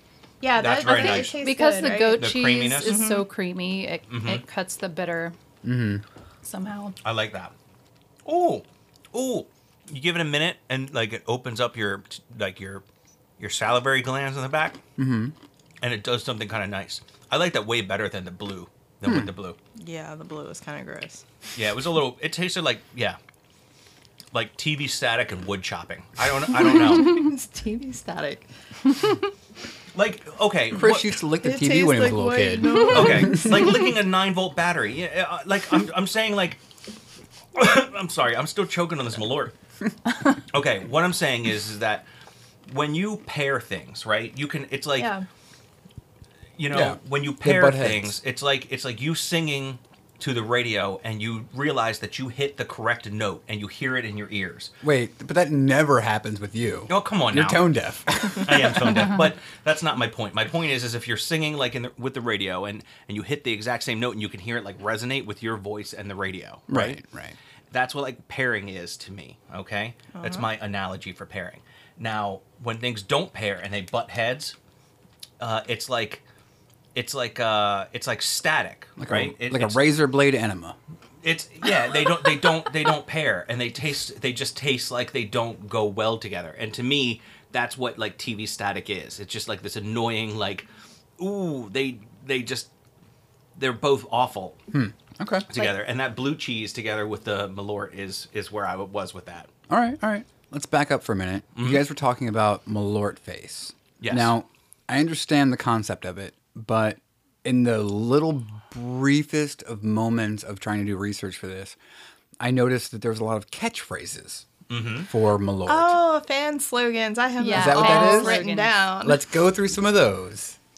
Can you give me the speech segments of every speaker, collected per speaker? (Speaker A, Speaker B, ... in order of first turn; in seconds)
Speaker A: 0.4-2.3, 2.8-3.2, 19.8-21.2, 26.6-28.5, 31.4-33.5, 45.0-45.2, 70.1-70.5, 115.7-119.2
Speaker B: 0.6-1.4, 2.2-3.0, 4.1-4.4, 7.0-7.5, 8.2-12.8, 13.4-14.8, 15.8-19.6, 21.5-23.2, 24.3-27.3, 29.9-31.1, 32.9-36.6, 37.5-39.5, 40.5-42.0, 42.7-45.1, 46.6-54.7, 56.9-57.7, 58.3-67.0, 67.7-74.5, 75.4-76.2, 76.9-79.8, 81.2-90.7, 91.2-92.7, 93.5-94.6, 95.5-99.5, 101.5-101.8, 104.0-104.3, 114.7-115.1
Speaker C: 0.9-5.3, 6.4-7.0, 117.4-118.7
Speaker D: 5.6-6.0, 15.0-15.3, 19.0-19.3, 30.7-33.8, 46.7-48.1, 54.8-59.2, 66.7-67.3, 79.0-80.8, 94.7-95.5, 99.7-111.8, 112.4-114.5, 115.1-116.0, 117.5-118.4, 119.0-120.6